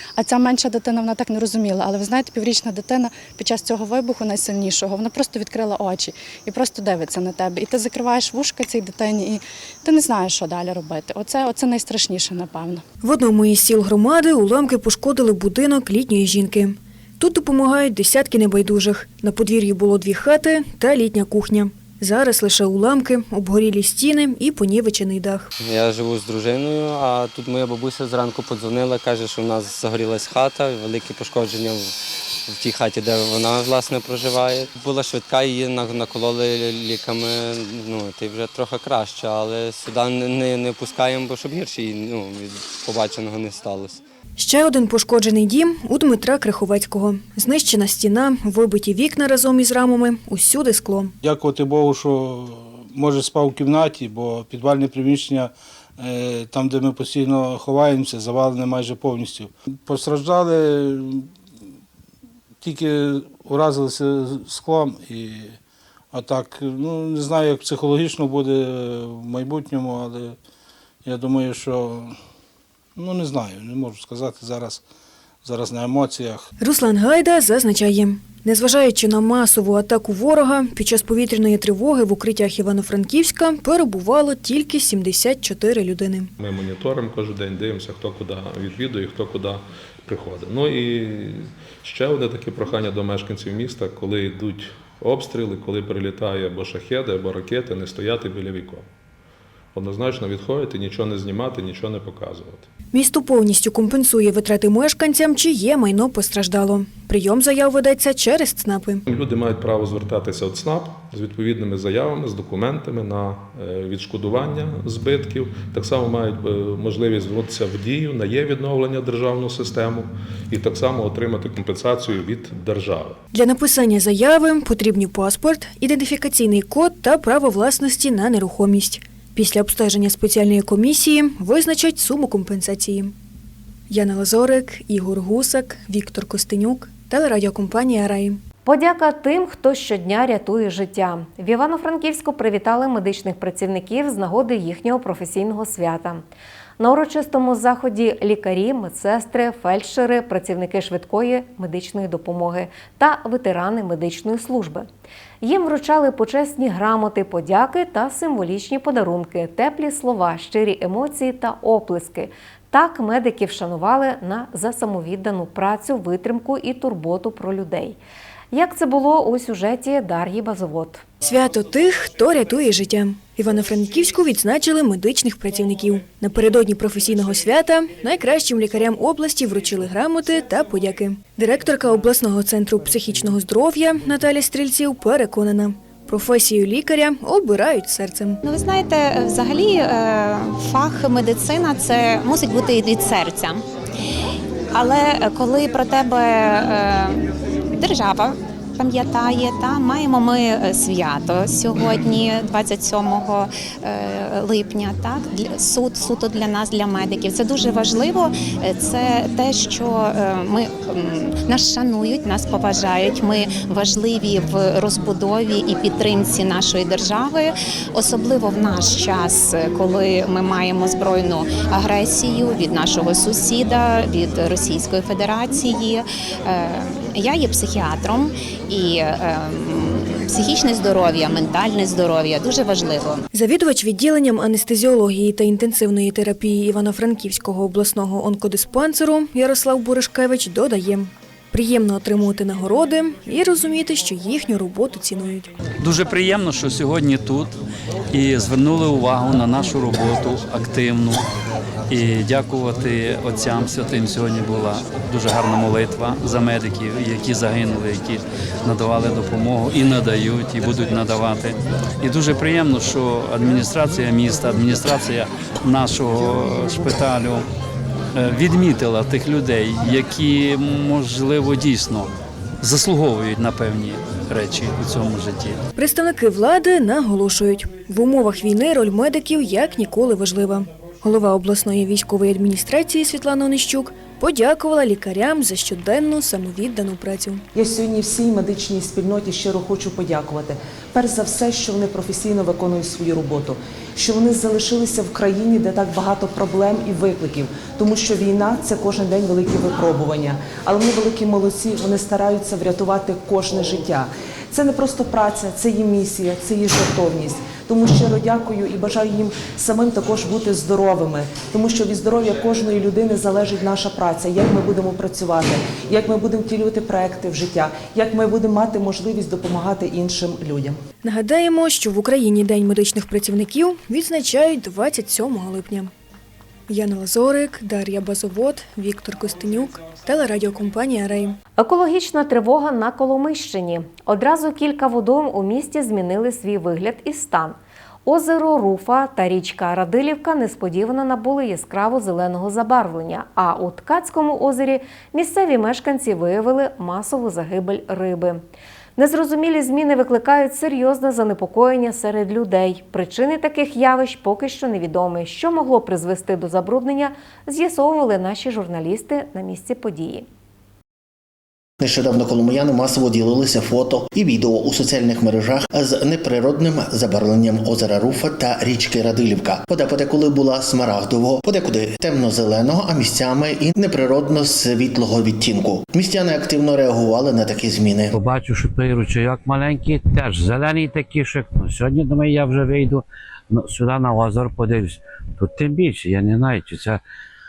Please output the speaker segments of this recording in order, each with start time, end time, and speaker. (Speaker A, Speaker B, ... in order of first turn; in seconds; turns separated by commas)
Speaker A: 0.1-12.8, Speaker B: 13.0-25.5, Speaker C: 25.6-44.0, Speaker B: 44.4-51.1, Speaker D: 51.2-61.3, Speaker D: 62.6-65.6, Speaker D: 66.1-70.3, Speaker D: 71.0-72.1, Speaker D: 73.0-74.8, Speaker D: 75.4-76.5, Speaker B: 76.6-86.3, Speaker E: 86.4-98.8, Speaker E: 99.7-102.7, Speaker B: 102.9-109.0, Speaker E: 109.1-123.2, Speaker B: 123.3-133.1, Speaker B: 133.9-138.4, Speaker F: 138.6-146.2, Speaker F: 146.8-154.9, Speaker F: 155.4-168.0, Speaker F: 168.5-171.0, Speaker B: 171.2-188.4, Speaker G: 188.4-193.6, Speaker G: 194.7-197.2, Speaker G: 197.7-233.2, Speaker B: 233.3-245.5, Speaker H: 245.8-247.5, Speaker H: 248.1-251.2, Speaker H: 251.9-267.4, Speaker H: 268.1-272.1, Speaker H: 272.6-275.6, Speaker B: 275.8-287.4, Speaker I: 287.6-320.8, Speaker B: 321.0-325.9, Speaker B: 326.7-331.4, Speaker F: 331.6-348.4, Speaker F: 349.0-360.2, Speaker J: 361.8-378.1, Speaker K: 378.1-387.0